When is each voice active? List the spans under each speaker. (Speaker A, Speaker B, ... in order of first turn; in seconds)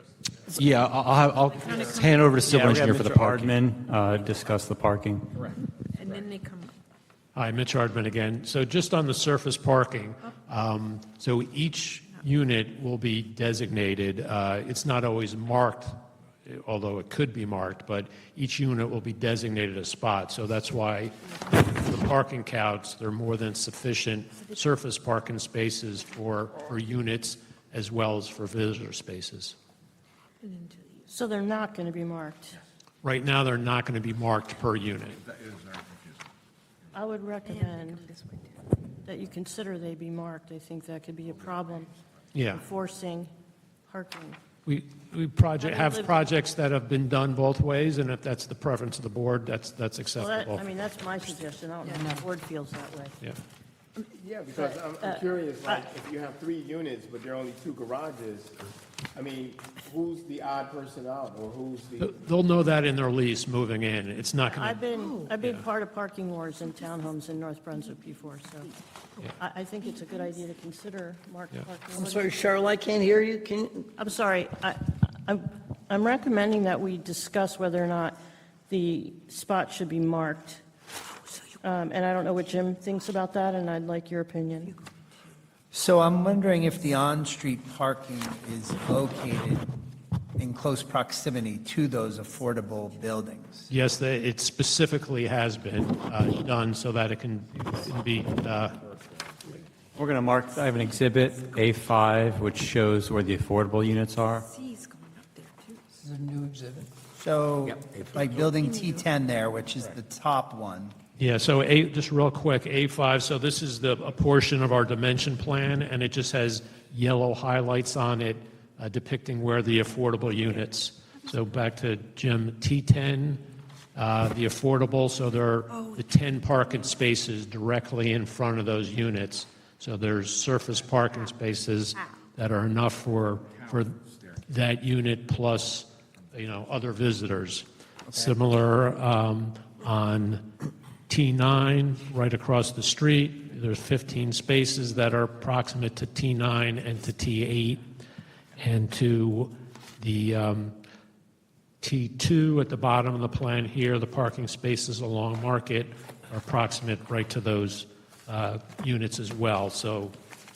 Speaker A: 0.5-3.5
Speaker B: 1.6-2.4, 6.0-6.7, 30.4-31.1, 37.5-38.5, 104.5-105.8
Speaker C: 2.5-5.4, 100.0-104.5
Speaker D: 7.3-29.6, 33.0-35.2, 42.4-42.6, 44.7-50.7, 62.0-64.8, 93.7-98.8, 111.2-123.4, 124.0-140.4, 141.1-147.8, 148.6-150.7, 151.8-160.1
Speaker E: 31.1-32.6, 36.9-38.0, 39.0-41.9, 42.5-43.3, 43.9-44.4, 45.6-46.3, 50.1-53.2, 54.6-55.2, 64.5-68.7, 69.4-72.4, 74.0-78.2, 78.7-80.6, 81.6-84.8
Speaker F: 54.0-58.6, 59.1-62.1
Speaker G: 71.9-73.9, 106.0-106.9
Speaker H: 85.7-89.7, 90.4-93.7, 107.2-110.9